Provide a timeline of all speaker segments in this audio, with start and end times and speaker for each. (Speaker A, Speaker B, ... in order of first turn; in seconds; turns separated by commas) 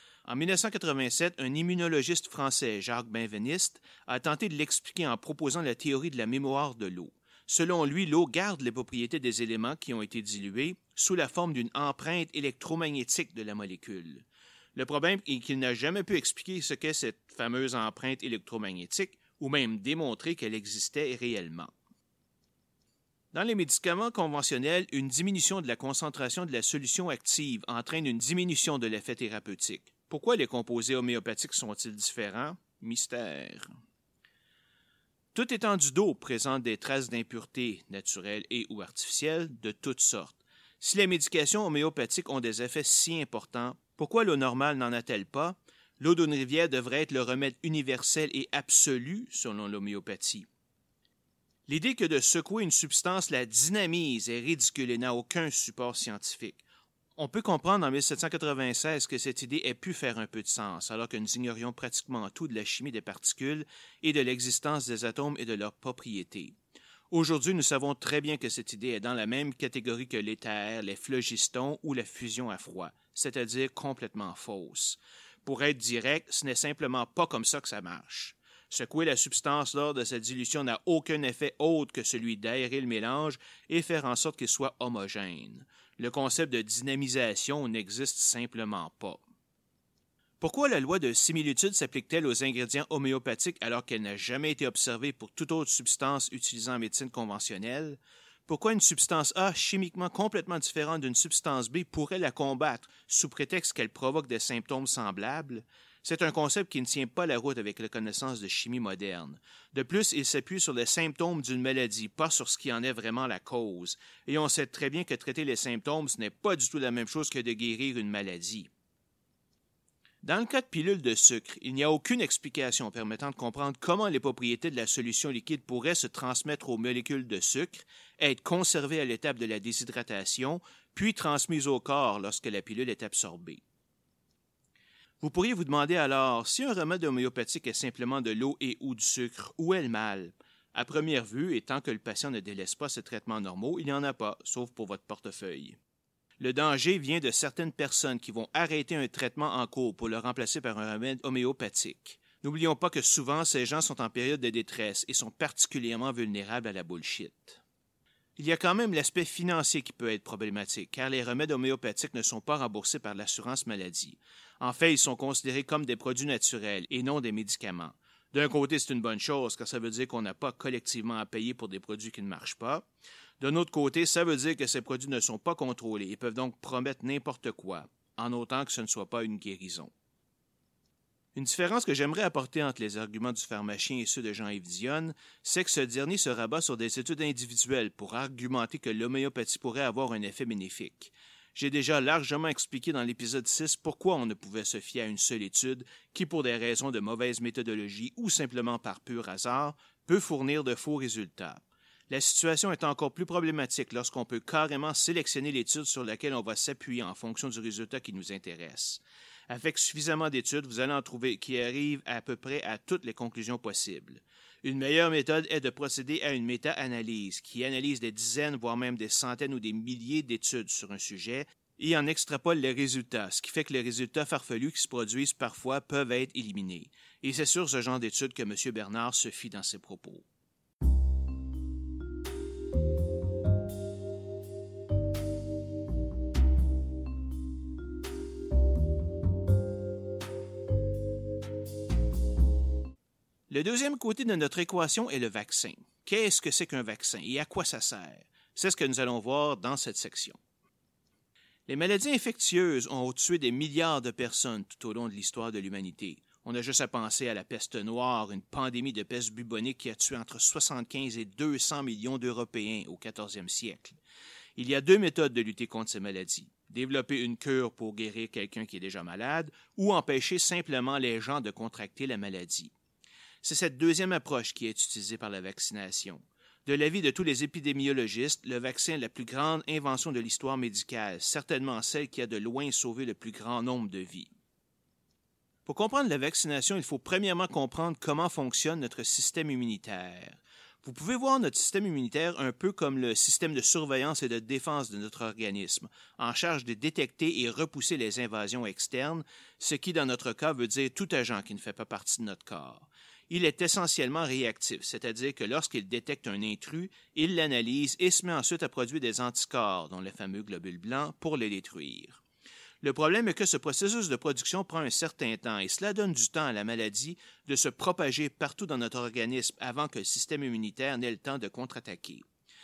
Speaker A: 0.2-21.7, Speaker A: 23.3-33.7, Speaker A: 35.3-50.5, Speaker A: 51.7-56.6, Speaker A: 57.2-66.5, Speaker A: 67.1-89.2, Speaker A: 90.4-118.7, Speaker A: 120.2-133.6, Speaker A: 135.2-145.8, Speaker A: 146.4-157.6, Speaker A: 158.4-172.8, Speaker A: 173.4-179.9, Speaker A: 181.3-230.2, Speaker A: 243.5-250.4, Speaker A: 251.7-264.0, Speaker A: 264.6-272.7, Speaker A: 273.4-284.3, Speaker A: 285.6-312.2, Speaker A: 312.8-322.2